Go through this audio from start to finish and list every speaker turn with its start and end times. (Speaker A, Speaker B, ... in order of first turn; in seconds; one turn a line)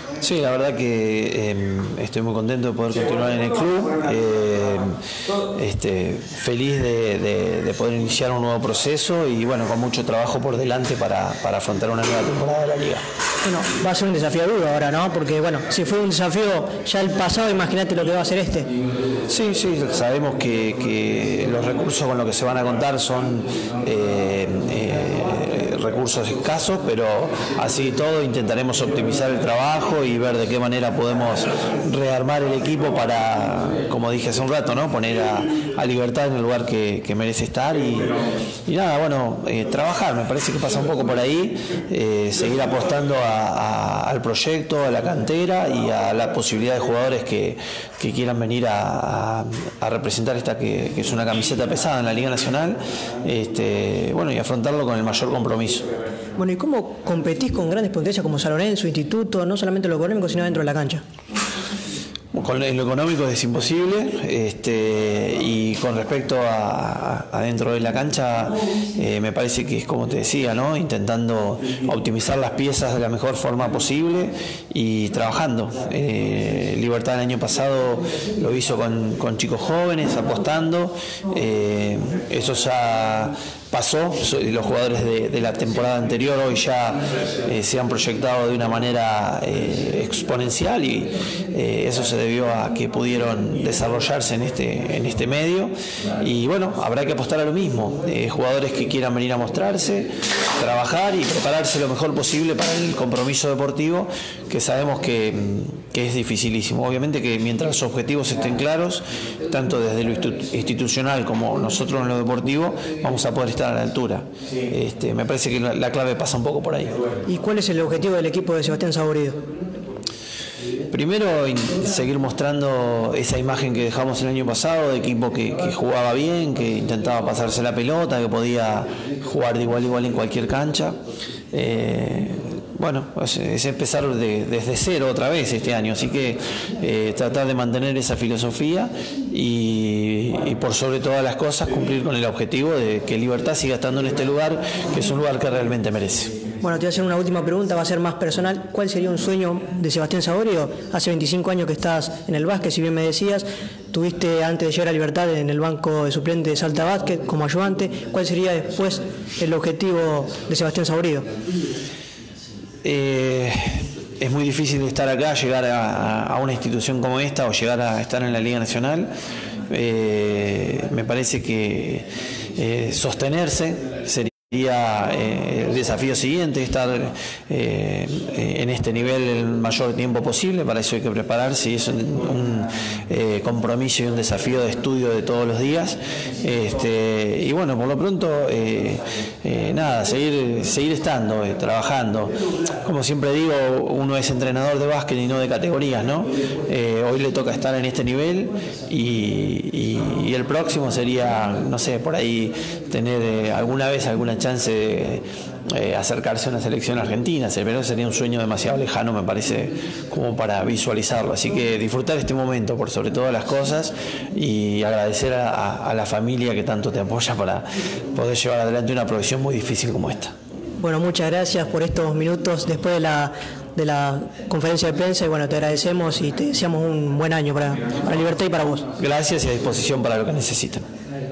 Speaker A: 0.2-4.9
Speaker A: 5.5-13.0
Speaker B: 13.4-18.7
Speaker A: 19.3-38.1
Speaker A: 38.7-55.9
Speaker B: 56.4-61.0
Speaker A: 62.3-116.9
Speaker B: 117.3-119.4
Speaker A: 120.9-131.0
Speaker A: 131.5-146.3
Speaker B: 146.6-161.3
Speaker A: 162.8-169.1
Speaker A: 169.7-217.6
Speaker A: 218.1-220.3
Speaker B: 220.8-228.8
Speaker A: 229.0-230.8